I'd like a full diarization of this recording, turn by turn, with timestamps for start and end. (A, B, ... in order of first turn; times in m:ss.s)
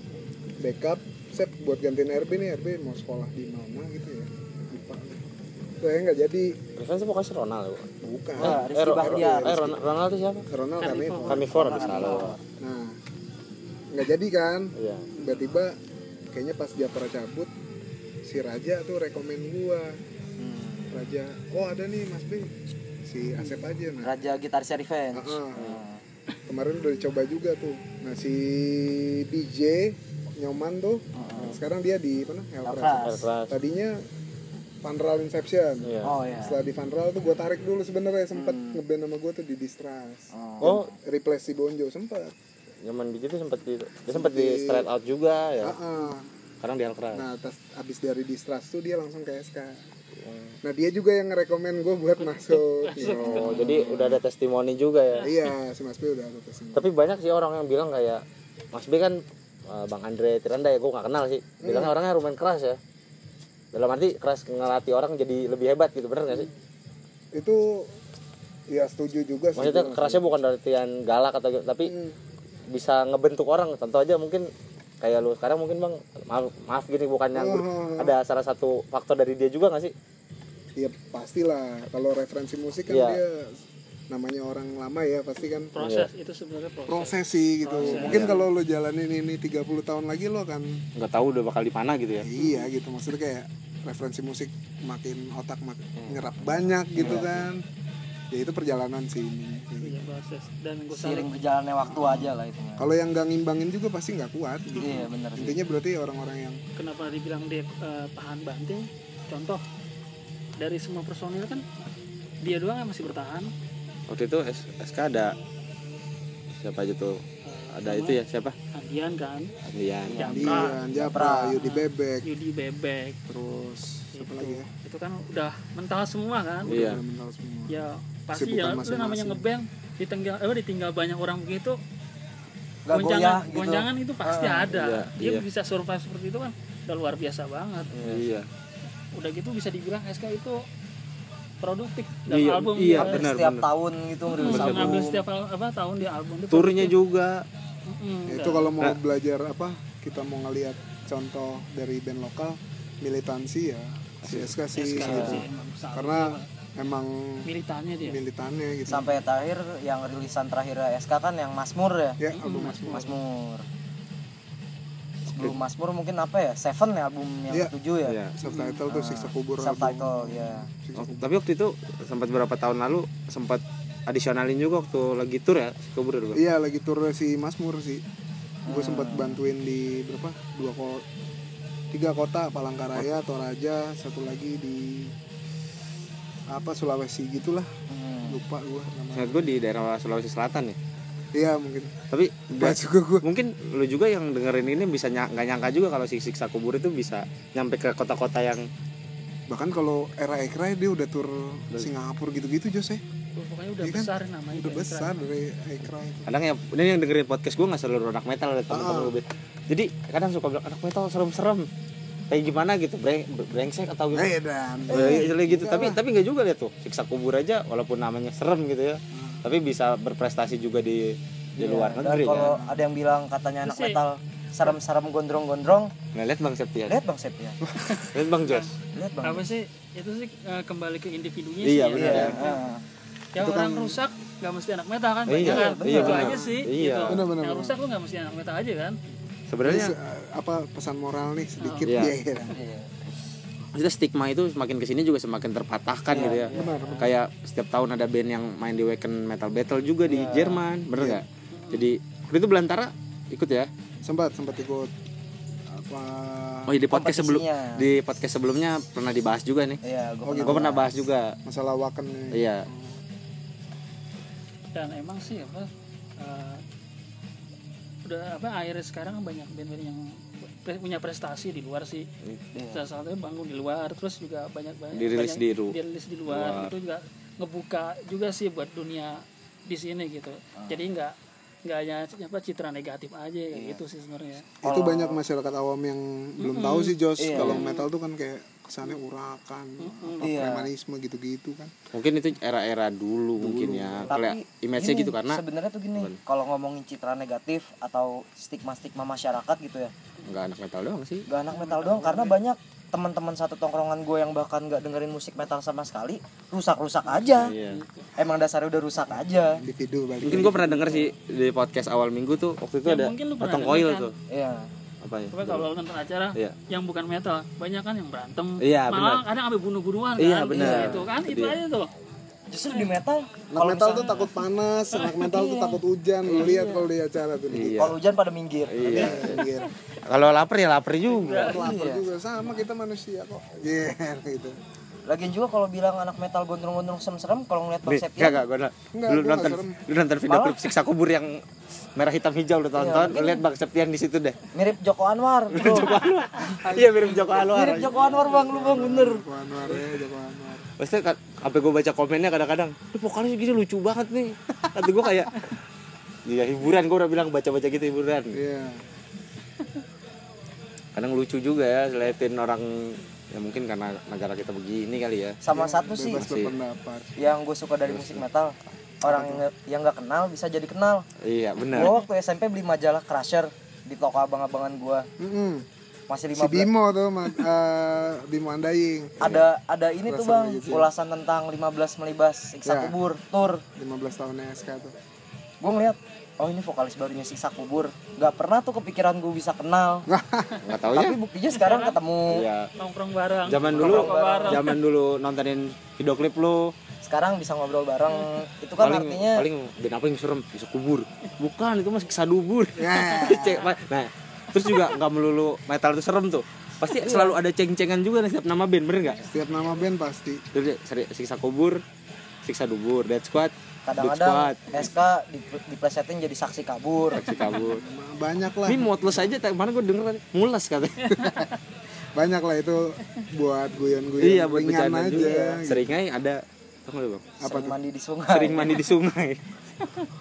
0:00.6-0:05.2 A
0:05.8-0:06.6 A
0:06.8-0:10.5 B
0:08.0-0:09.8 A
0:08.4-0:09.7 C
0:10.5-0:11.8 A
0:10.8-0:12.2 D
0:11.2-0:12.4 C
0:11.3-0:12.4 B
0:12.6-0:13.0 A
0:13.9-0:15.8 A
0:14.8-0:15.1 B
0:15.1-0:15.5 D
0:16.3-0:17.5 A
0:18.2-0:20.0 A
0:20.4-0:21.0 C
0:20.9-0:22.5 A
0:23.0-0:24.1 A
0:24.0-0:26.0 C
0:25.1-0:25.7 A
0:25.6-0:25.8 B
0:26.5-0:34.0 A
0:31.2-0:31.6 C
0:32.6-0:33.2 C
0:33.0-0:33.5 B
0:34.8-0:42.3 A
0:35.8-0:36.2 B
0:36.0-0:36.6 C
0:38.3-0:38.8 C
0:40.3-0:40.8 C
0:40.6-0:40.9 B
0:42.8-0:45.8 B
0:44.1-0:44.9 A
0:45.6-0:46.3 A
0:46.6-0:47.2 B
0:47.1-0:49.8 A
0:50.2-0:50.6 B
0:50.6-0:53.7 A
0:52.2-0:53.6 D
0:53.2-0:55.3 B
0:53.3-0:54.2 C
0:55.1-0:55.5 D
0:55.2-0:56.9 A
0:56.8-1:02.8 B
1:01.6-1:01.9 A
1:03.7-1:06.5 B
1:07.3-1:07.9 A
1:08.7-1:10.2 A
1:09.6-1:11.9 B
1:11.8-1:12.2 A
1:12.7-1:14.5 B
1:15.0-1:19.9 B
1:17.4-1:18.1 A
1:20.8-1:25.7 A
1:22.9-1:23.2 B
1:25.7-1:28.5 D
1:25.8-1:26.1 B
1:26.9-1:30.8 A
1:27.8-1:28.4 B
1:31.0-1:32.3 B
1:32.2-1:37.6 A
1:32.4-1:32.7 D
1:37.0-1:37.4 B
1:37.0-1:37.4 C
1:38.3-1:40.1 A
1:39.8-1:41.3 D
1:40.9-1:42.9 C
1:41.9-1:46.6 A
1:44.8-1:45.6 C
1:44.8-1:45.1 D
1:46.8-1:49.6 D
1:50.6-1:51.6 D
1:52.4-1:53.5 D
1:54.1-1:55.4 B
1:56.6-1:58.6 B
1:57.4-1:58.2 D
1:58.7-1:59.5 D
1:59.6-2:00.3 B
2:00.1-2:01.6 C
2:00.2-2:00.8 D
2:00.3-2:02.3 A
2:01.5-2:03.2 D
2:03.3-2:04.7 A
2:04.1-2:06.8 D
2:06.6-2:07.8 A
2:06.7-2:07.0 B
2:07.7-2:11.8 D
2:08.3-2:09.5 A
2:12.9-2:14.7 C
2:12.9-2:18.0 D
2:14.7-2:15.4 B
2:18.0-2:18.2 C
2:18.0-2:18.5 B
2:19.1-2:20.6 D
2:21.6-2:23.2 D
2:22.3-2:23.7 B
2:22.9-2:25.2 C
2:24.3-2:27.0 D
2:24.4-2:25.0 B
2:26.5-2:27.4 B
2:27.9-2:28.8 D
2:28.3-2:37.5 A
2:34.2-2:35.4 B
2:34.8-2:36.5 D
2:35.1-2:35.4 C
2:37.4-2:38.2 D
2:38.0-2:39.2 A
2:38.9-2:42.2 C
2:42.2-2:43.2 A
2:42.3-2:43.0 D
2:42.8-2:43.6 C
2:45.3-2:48.2 C
2:48.0-2:48.3 B
2:48.4-2:51.3 A
2:48.5-2:48.8 D
2:48.9-2:50.7 C
2:51.0-2:56.4 B
2:56.3-2:58.0 A
2:58.7-2:59.4 C
2:58.7-3:01.0 A
3:01.9-3:05.1 A
3:06.5-3:07.7 A
3:07.9-3:08.4 C
3:08.2-3:09.6 A
3:09.1-3:10.8 B
3:11.3-3:12.0 A
3:12.1-3:18.6 B
3:12.5-3:13.2 A
3:19.5-3:23.0 A
3:23.4-3:25.1 D
3:23.8-3:26.3 A
3:26.3-3:31.7 B
3:28.7-3:29.2 A
3:32.3-3:34.3 B
3:34.1-3:36.0 A
3:34.9-3:42.6 B
3:35.0-3:35.2 C
3:39.1-3:39.4 A
3:41.6-3:45.9 C
3:42.3-3:42.8 A
3:43.6-3:44.0 D
3:46.1-3:47.0 B
3:46.9-3:47.6 C
3:47.7-3:48.0 A
3:48.0-3:48.7 D
3:48.0-3:48.7 B
3:48.9-3:49.5 C
3:49.2-3:52.6 D
3:51.6-3:52.4 B
3:52.0-3:52.8 C
3:53.3-3:59.0 D
3:53.4-3:54.0 A
3:55.3-3:57.2 B
3:55.4-3:56.4 C
3:57.1-3:57.8 A
3:59.5-4:00.0 B
3:59.6-4:02.6 A
4:01.6-4:01.9 D
4:01.8-4:02.2 B
4:02.5-4:03.0 C
4:03.7-4:13.7 B
4:06.1-4:07.1 C
4:06.5-4:07.1 A
4:10.1-4:10.6 C
4:10.9-4:11.2 A
4:11.5-4:11.9 D
4:14.0-4:14.9 A
4:15.7-4:16.7 A
4:16.7-4:19.8 B
4:16.9-4:17.9 C
4:19.8-4:21.0 C
4:20.2-4:20.8 A
4:20.4-4:21.4 B
4:21.4-4:23.0 A
4:22.3-4:22.7 B
4:24.8-4:26.6 D
4:28.0-4:32.1 D
4:32.5-4:32.8 C
4:32.7-4:44.5 D
4:34.9-4:36.7 B
4:40.6-4:40.8 C
4:43.5-4:43.8 C
4:44.6-4:45.2 C
4:44.6-4:51.7 A
4:46.4-4:47.9 D
4:47.2-4:47.7 C
4:47.4-4:47.6 B
4:49.8-4:50.3 D
4:50.2-4:50.7 C
4:51.9-4:55.4 B
4:53.4-4:54.1 A
4:54.1-4:59.9 C
5:00.2-5:01.3 B
5:01.3-5:07.5 C
5:01.5-5:02.4 D
5:07.1-5:08.1 D
5:07.3-5:07.8 B
5:08.2-5:09.6 C
5:09.6-5:10.9 A
5:10.2-5:14.1 B
5:10.8-5:11.1 C
5:12.8-5:14.1 D
5:14.3-5:14.7 C
5:15.0-5:15.7 B
5:15.3-5:21.9 D
5:18.6-5:19.2 B
5:20.2-5:21.6 B
5:20.5-5:21.0 C
5:22.5-5:24.3 C
5:22.7-5:23.0 D
5:23.5-5:27.8 A
5:25.2-5:26.9 C
5:27.5-5:28.0 B
5:27.7-5:29.3 C
5:28.7-5:29.4 B
5:28.8-5:29.7 A
5:30.0-5:31.5 B
5:31.1-5:31.7 D
5:31.3-5:34.6 A
5:31.5-5:32.0 C
5:35.1-5:38.4 C
5:37.9-5:41.4 B
5:38.9-5:39.8 A
5:40.3-5:40.7 C
5:42.0-5:44.4 B
5:42.8-5:43.4 C
5:44.5-5:46.1 C
5:45.5-5:48.0 B
5:47.4-5:49.2 C
5:47.9-5:48.2 D
5:48.0-5:50.7 A
5:50.8-5:55.4 B
5:56.3-5:58.4 B
5:58.3-5:58.8 A
6:01.0-6:05.4 B
6:05.4-6:06.2 C
6:05.5-6:07.1 A
6:06.2-6:06.5 B
6:07.2-6:11.1 C
6:07.9-6:08.2 B
6:09.0-6:09.4 A
6:11.2-6:12.0 B
6:11.7-6:15.1 C
6:15.2-6:15.7 A
6:16.1-6:16.7 C
6:16.3-6:19.4 A
6:19.2-6:23.6 C
6:20.1-6:20.9 A
6:22.6-6:23.0 A
6:23.8-6:24.9 A
6:25.6-6:30.1 C
6:30.1-6:30.6 A
6:30.6-6:31.2 B
6:30.9-6:32.5 C
6:31.5-6:32.0 D
6:32.3-6:32.7 B
6:32.8-6:34.8 D
6:33.5-6:36.7 B
6:33.7-6:34.6 C
6:37.0-6:39.5 C
6:38.8-6:49.3 B
6:42.8-6:43.7 A
6:46.9-6:47.4 C
6:49.2-6:50.4 A
6:49.4-6:49.7 D
6:50.5-6:51.8 B
6:52.4-6:54.9 B
6:53.8-6:57.4 C
6:57.1-6:57.8 B
6:57.5-6:59.3 A
6:58.7-7:01.2 B
7:01.0-7:01.6 D
7:01.2-7:01.5 A
7:02.2-7:05.9 A
7:04.2-7:07.3 B
7:05.1-7:05.6 C
7:07.4-7:07.8 A
7:07.4-7:08.8 C
7:08.3-7:09.4 B